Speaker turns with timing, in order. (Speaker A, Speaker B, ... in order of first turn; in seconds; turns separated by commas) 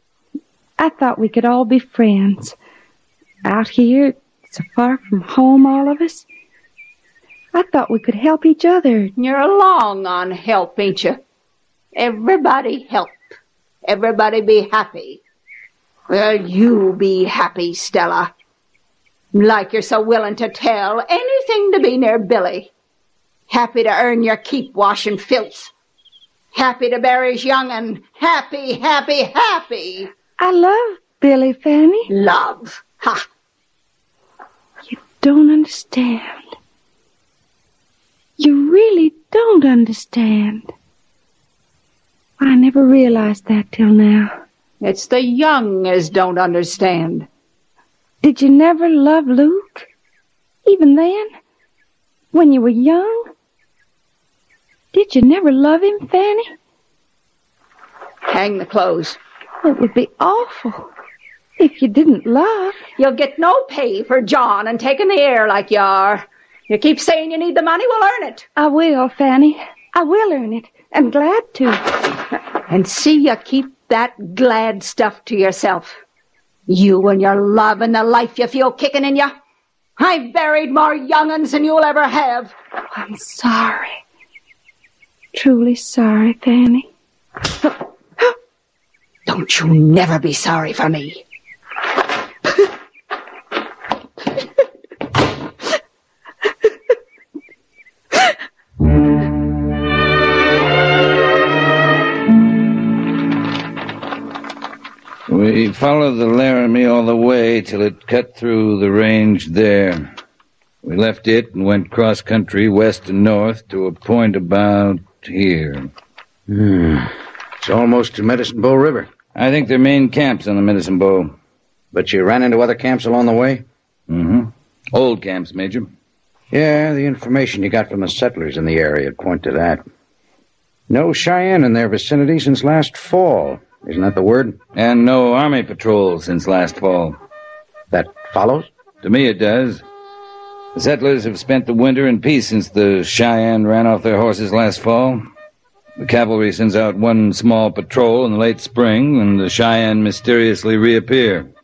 Speaker A: 0.8-2.5, Speaker A: 3.4-6.2, Speaker A: 7.5-9.1, Speaker B: 9.2-11.2, Speaker B: 11.9-13.2, Speaker B: 13.8-15.2, Speaker B: 16.1-18.3, Speaker B: 19.3-22.7, Speaker B: 23.5-25.7, Speaker B: 26.5-30.1, Speaker A: 30.4-32.1, Speaker B: 32.1-33.2, Speaker A: 34.9-36.5, Speaker A: 38.4-40.7, Speaker A: 42.4-44.4, Speaker B: 44.8-47.3, Speaker A: 48.2-49.9, Speaker A: 50.6-51.3, Speaker A: 52.3-53.3, Speaker A: 54.9-56.5, Speaker B: 58.3-59.2, Speaker A: 59.6-60.9, Speaker A: 61.6-62.8, Speaker B: 63.0-68.5, Speaker A: 68.5-72.0, Speaker B: 72.7-76.0, Speaker B: 76.7-79.3, Speaker B: 80.0-82.5, Speaker A: 82.9-84.0, Speaker A: 85.3-86.9, Speaker B: 89.3-91.2, Speaker C: 105.3-110.1, Speaker C: 110.8-115.9, Speaker D: 116.5-119.1, Speaker C: 119.3-121.3, Speaker D: 121.9-123.6, Speaker C: 124.1-125.9, Speaker D: 126.5-129.8, Speaker D: 130.9-134.6, Speaker C: 134.7-137.2, Speaker D: 137.9-138.7, Speaker C: 139.0-139.8, Speaker C: 140.7-145.2, Speaker C: 146.0-151.5